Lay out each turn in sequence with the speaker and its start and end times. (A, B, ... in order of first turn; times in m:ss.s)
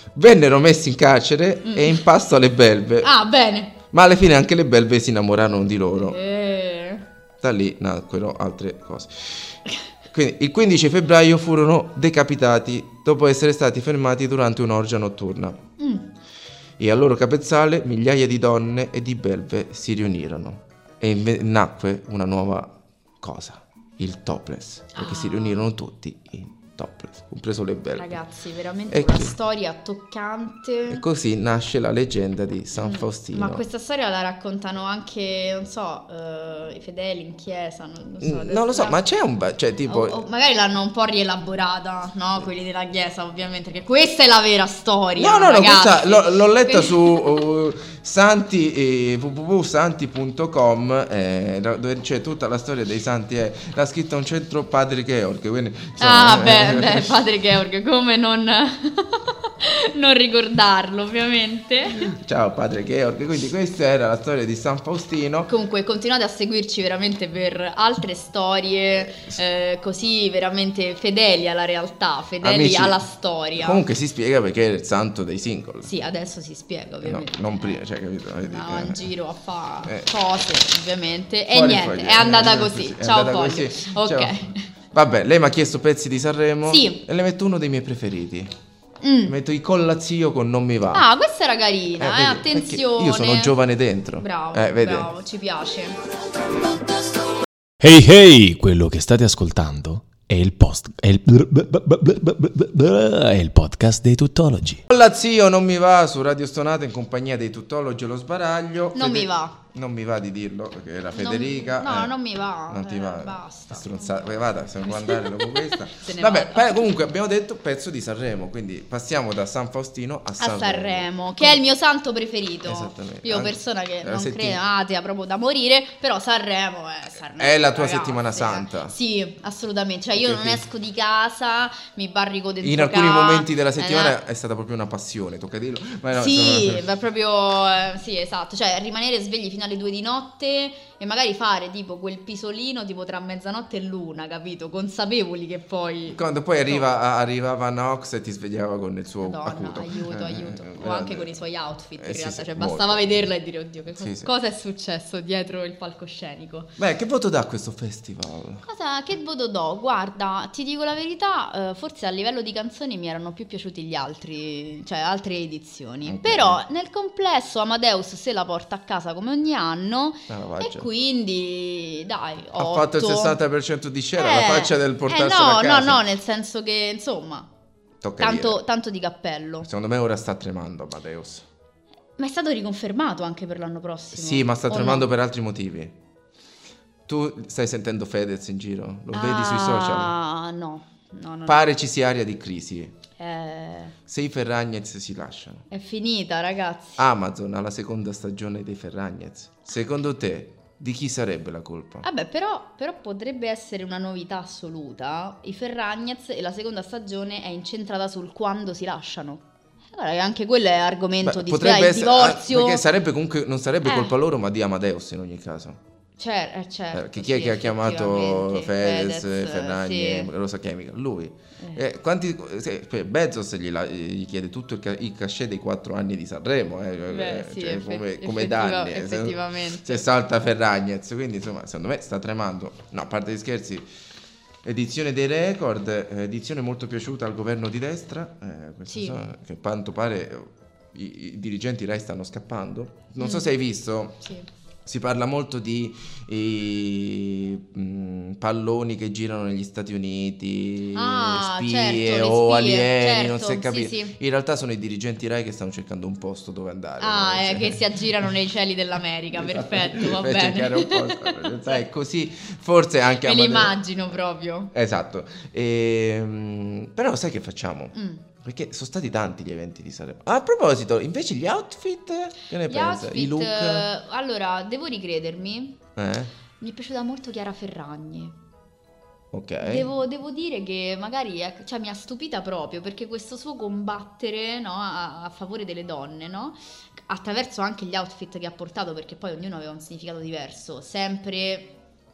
0:00.2-0:03.1 A
0:01.6-0:02.0 B
0:03.0-0:03.8 B
0:03.9-0:06.2 A
0:06.0-0:07.0 B
0:07.4-0:09.6 A
0:10.1-0:15.6 A
0:15.8-0:16.1 B
0:16.8-0:28.2 A
0:24.9-0:25.7 B
0:28.0-0:31.0 B
0:28.9-0:29.4 A
0:30.9-0:33.6 A
0:32.8-0:39.0 B
0:38.2-0:40.2 A
0:39.9-0:47.4 B
0:45.2-0:57.1 A
0:56.0-1:02.1 B
1:02.0-1:05.5 A
1:05.5-1:13.8 B
1:09.0-1:09.4 A
1:12.4-1:13.0 A
1:13.6-1:15.9 A
1:15.8-1:17.8 B
1:17.0-1:19.0 A
1:18.4-1:24.7 B
1:21.5-1:24.4 A
1:24.9-1:28.5 A
1:26.7-1:27.0 B
1:29.0-1:29.4 B
1:29.2-1:31.1 A
1:30.9-1:33.6 B
1:32.0-1:35.1 A
1:34.2-1:36.0 B
1:37.8-1:44.8 C
1:44.9-1:52.2 A
1:49.0-1:49.6 B
1:51.1-1:56.8 B
1:52.7-2:01.6 A
2:00.4-2:14.2 B
2:02.7-2:04.6 A
2:07.4-2:08.9 A
2:10.2-2:10.6 A
2:12.6-2:16.8 A
2:16.1-2:26.9 B
2:26.1-2:31.4 A
2:29.2-2:36.8 B
2:32.0-2:33.2 A
2:33.9-2:34.3 A
2:36.8-2:38.6 A
2:38.6-2:53.4 B
2:46.1-2:46.6 A
2:50.3-2:50.9 A
2:52.6-2:56.0 A
2:54.2-2:57.5 B
2:58.0-2:58.6 A
2:58.2-2:59.7 B
2:59.6-3:01.5 A
3:02.2-3:05.1 B
3:04.1-3:06.0 A
3:07.1-3:10.1 A
3:09.1-3:11.7 B
3:11.5-3:13.0 A
3:13.2-3:14.0 B
3:14.1-3:15.7 A
3:15.7-3:17.0 B
3:17.0-3:22.1 A
3:22.0-3:32.8 B
3:31.2-3:35.8 A
3:33.8-3:34.1 B
3:36.2-3:40.3 B
3:36.9-3:53.9 A
3:47.1-3:50.0 B
3:54.6-4:04.2 A
3:58.9-3:59.2 B
4:03.2-4:03.5 B
4:04.2-4:04.5 B
4:04.9-4:17.8 A
4:10.9-4:14.1 B
4:17.0-4:21.8 B
4:19.3-4:23.7 A
4:23.2-4:24.7 B
4:24.7-4:33.9 A
4:27.9-4:28.2 B
4:32.7-4:35.8 B
4:36.0-4:36.3 A
4:36.6-4:38.4 B
4:39.3-4:39.9 A
4:39.6-4:51.7 B